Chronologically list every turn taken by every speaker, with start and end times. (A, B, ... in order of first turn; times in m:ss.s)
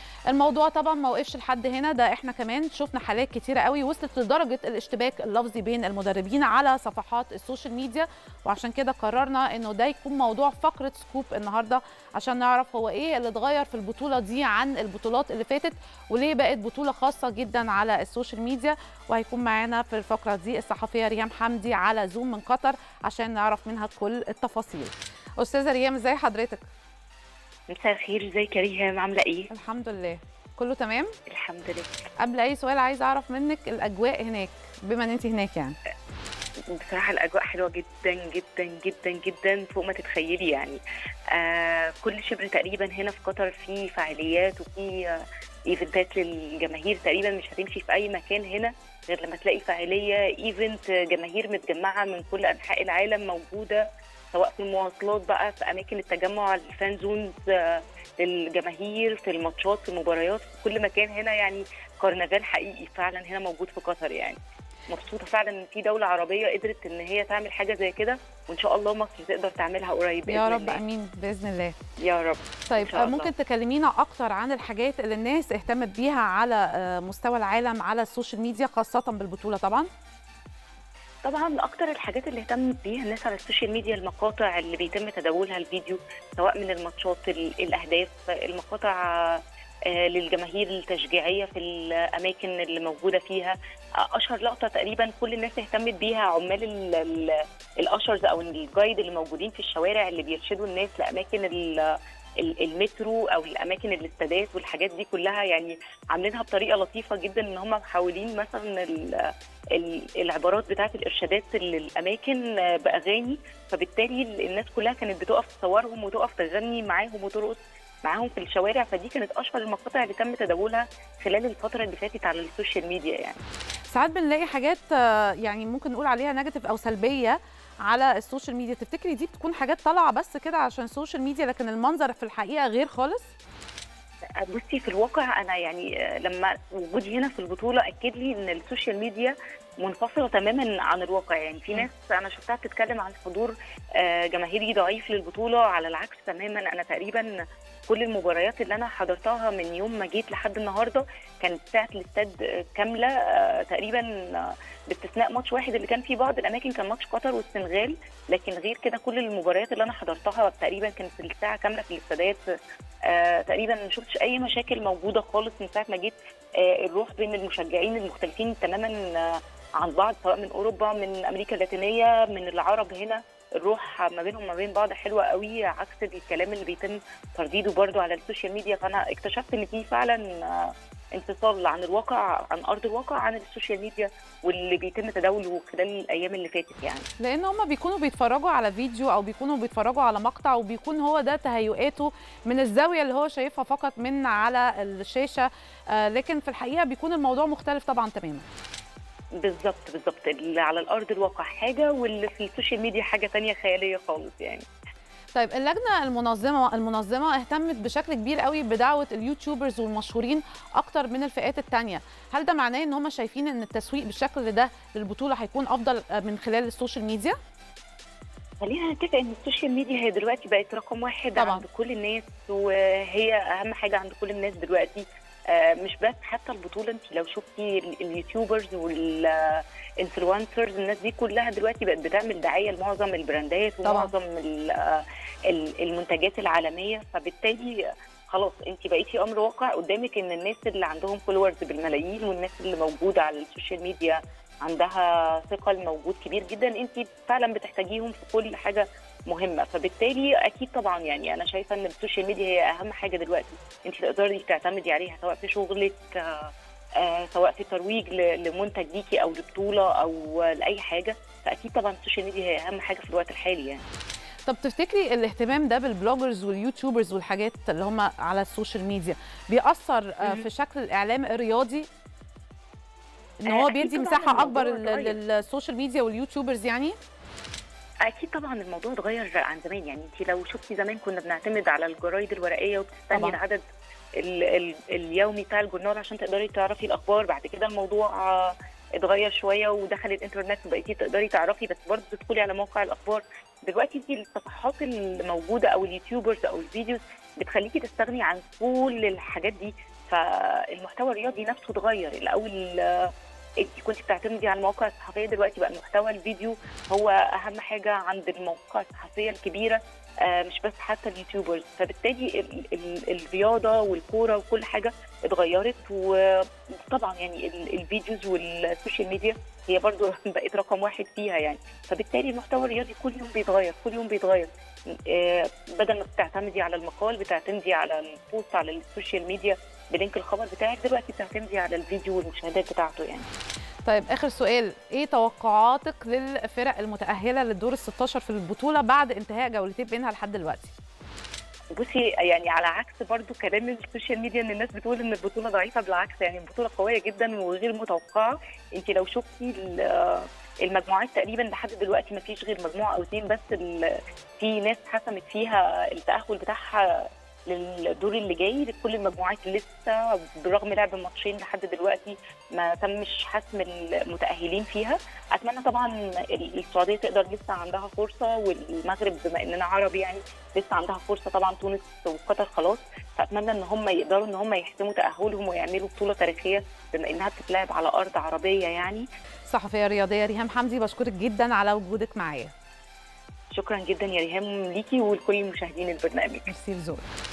0:00.3-0:26.7 A
0:27.7-0:29.5 B
0:29.5-0:31.1 A
0:31.3-0:32.0 B
0:32.2-0:35.8 A
0:36.8-0:40.8 B
0:41.3-1:10.8 B
1:10.3-1:11.8 A
1:12.0-1:13.3 B
1:12.7-1:19.9 A
1:21.2-2:03.4 B
2:03.9-2:13.3 A
2:14.4-2:27.3 B
2:27.9-2:42.4 B
2:43.1-3:07.1 B
3:07.2-3:18.5 A
3:19.4-3:24.7 B
3:25.4-3:37.4 A
3:38.6-4:23.8 B
3:41.4-3:41.6 A
3:53.8-3:54.1 A
4:24.5-4:31.9 A
4:33.4-4:37.0 A
4:33.5-4:35.2 B
4:38.1-4:43.6 B
4:44.2-5:33.3 B
5:33.8-5:40.7 A
5:41.7-6:19.0 B
6:19.5-6:22.5 A
6:23.5-6:26.5 B
6:26.5-6:27.1 A